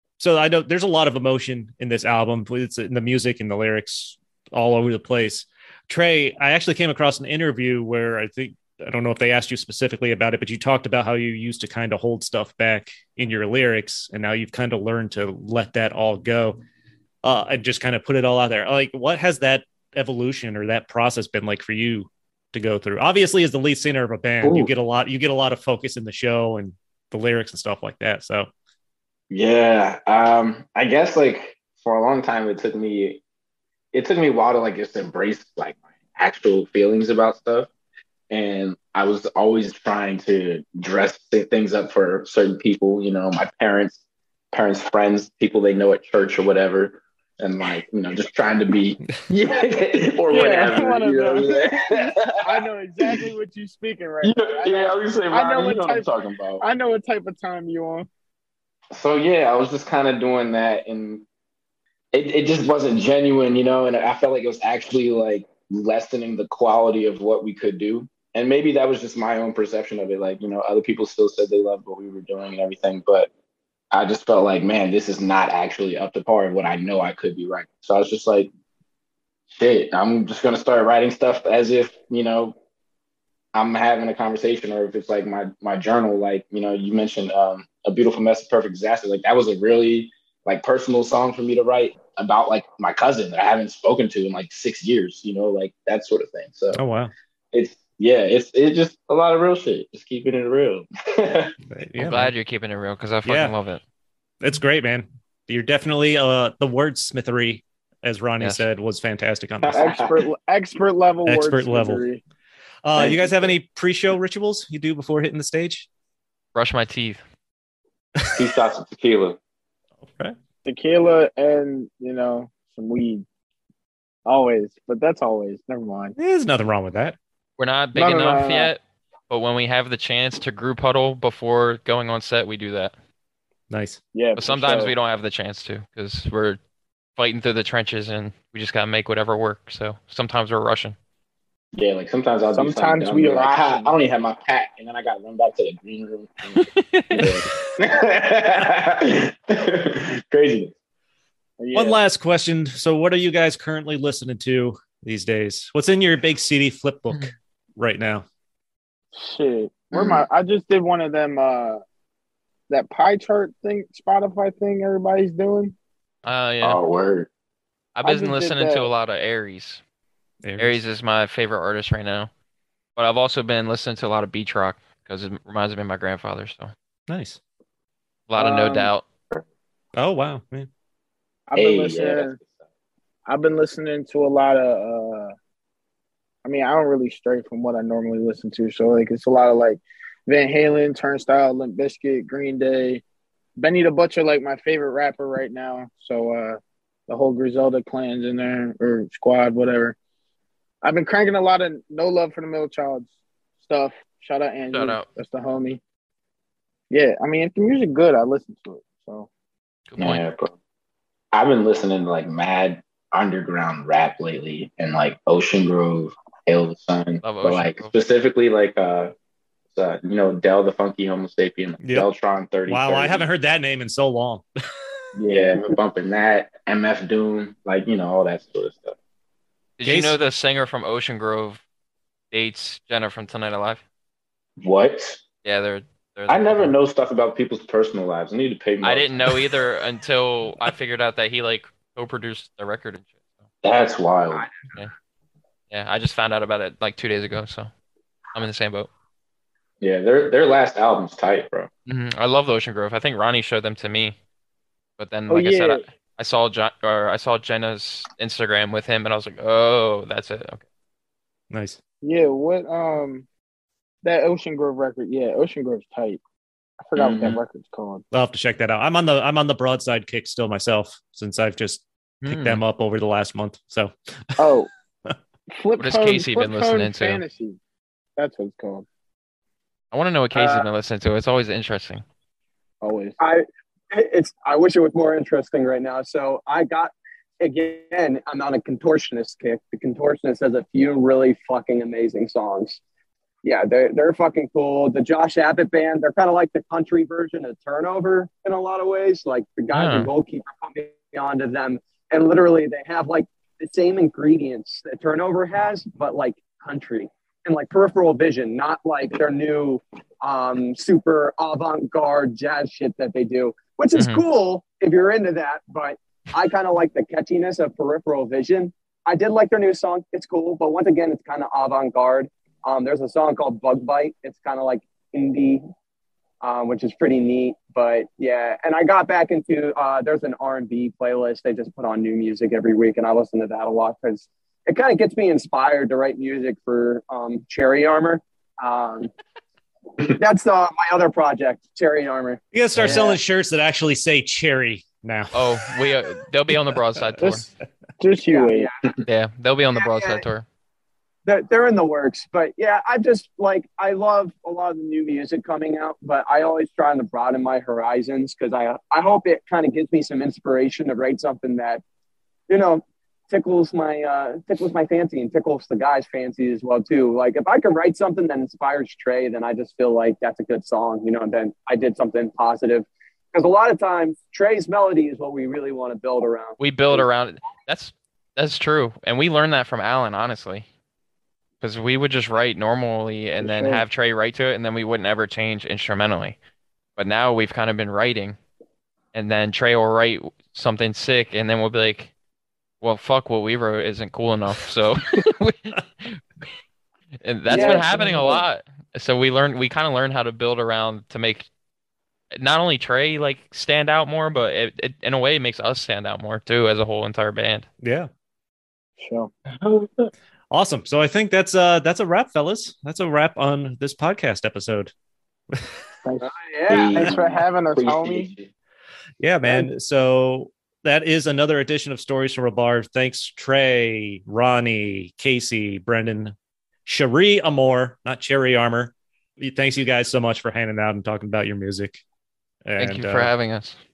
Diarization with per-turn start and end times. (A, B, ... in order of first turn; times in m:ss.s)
0:00.2-0:16.6 A
0:17.2-0:28.5 A
0:24.4-0:24.7 B
0:29.3-0:33.2 B
0:33.9-0:37.7 B
0:38.3-0:44.0 B
0:44.5-0:53.2 B
0:50.3-0:58.1 C
0:54.2-0:56.6 B
0:58.9-1:01.2 B
1:02.1-1:13.3 B
1:13.9-1:18.5 B
1:19.5-1:22.6 B
1:23.5-1:36.8 B
1:36.7-1:37.1 A
1:37.5-1:41.6 B
1:41.7-1:42.3 A
1:42.0-1:43.8 D
1:43.2-1:43.5 A
1:44.4-1:49.8 A
1:49.6-1:50.2 B
1:49.7-1:52.2 C
1:51.2-1:52.0 A
1:52.8-1:55.9 A
1:53.0-1:53.5 C
1:56.6-1:57.2 D
1:58.4-1:59.4 B
2:00.0-2:00.4 A
2:00.6-2:03.2 C
2:04.3-2:06.2 C
2:06.2-2:07.2 A
2:07.6-2:12.9 D
2:08.0-2:08.7 C
2:13.7-2:14.0 A
2:14.1-2:14.9 C
2:14.4-2:16.6 D
2:17.2-2:21.0 D
2:21.7-2:30.7 B
2:22.5-2:23.9 C
2:26.6-2:27.7 D
2:31.6-2:32.0 C
2:31.7-2:38.3 A
2:39.1-2:41.8 C
2:39.9-2:40.2 B
2:42.7-2:45.8 C
2:46.2-2:46.8 D
2:46.6-2:47.3 B
2:48.0-2:49.8 D
2:48.0-2:48.9 C
2:50.4-2:50.8 A
2:50.6-2:52.3 D
2:53.0-2:56.7 D
2:57.1-2:57.4 A
2:58.3-2:59.0 D
2:58.4-2:58.9 C
3:00.0-3:00.7 A
3:01.5-3:02.4 C
3:01.6-3:02.4 B
3:03.3-3:05.3 C
3:06.4-3:13.0 C
3:13.6-3:20.0 C
3:20.8-3:23.1 C
3:23.6-3:25.8 C
3:24.7-3:25.0 D
3:26.9-3:29.3 C
3:29.9-3:30.2 D
3:30.0-3:30.5 B
3:31.3-3:39.1 B
3:37.2-3:37.9 D
3:39.7-3:43.3 B
3:41.8-3:42.1 A
3:42.7-3:44.9 A
3:45.2-3:49.0 B
3:45.3-3:45.7 C
3:49.8-3:51.6 D
3:49.8-3:50.2 A
3:52.3-3:53.8 D
3:54.6-3:55.2 B
3:55.4-3:56.7 D
3:56.3-3:59.4 B
3:58.8-4:03.1 D
4:03.6-4:04.5 B
4:04.6-4:04.9 D
4:05.7-4:07.7 D
4:08.3-4:08.9 D
4:09.8-4:11.7 B
4:11.9-4:14.2 D
4:15.0-4:20.6 D
4:15.3-4:15.8 C
4:21.5-4:21.8 A
4:22.0-4:23.3 C
4:24.0-4:26.2 C
4:26.9-4:28.0 C
4:27.0-4:27.4 B
4:28.1-4:34.4 A
4:32.2-4:32.6 D
4:34.4-4:34.7 C
4:35.5-4:37.6 C
4:35.8-4:37.2 D
4:38.2-4:38.9 C
4:39.9-4:42.0 D
4:40.4-4:40.6 C
4:42.8-4:43.2 C
4:43.2-4:52.8 E
4:53.4-5:25.6 E
4:59.7-5:00.1 D
5:14.0-5:14.2 D
5:26.4-5:39.1 E
5:40.1-5:42.4 E
5:42.5-5:45.7 A
5:42.8-5:43.0 D
5:45.3-5:47.4 D
5:47.2-5:48.7 C
5:48.3-5:48.9 E
5:49.0-5:50.4 D
5:49.8-5:50.2 E
5:51.3-6:01.8 E
6:02.5-6:17.1 E
6:16.6-6:20.6 D
6:21.6-6:26.4 D
6:23.4-6:23.8 C
6:27.0-6:28.4 D
6:29.1-6:32.1 D
6:32.8-6:36.2 D
6:37.2-6:41.5 D
6:37.5-6:38.1 E
6:37.5-6:38.4 C
6:42.4-6:47.7 D
6:47.8-6:48.1 A
6:49.0-6:49.3 C
6:49.6-6:50.1 B
6:50.5-6:54.9 A
6:56.0-6:56.3 C
6:56.2-6:57.1 E
6:56.7-6:58.5 B
6:56.9-6:58.3 C
6:59.2-7:06.3 A
7:06.9-7:12.0 A
7:12.7-7:13.3 A
7:12.8-7:13.8 D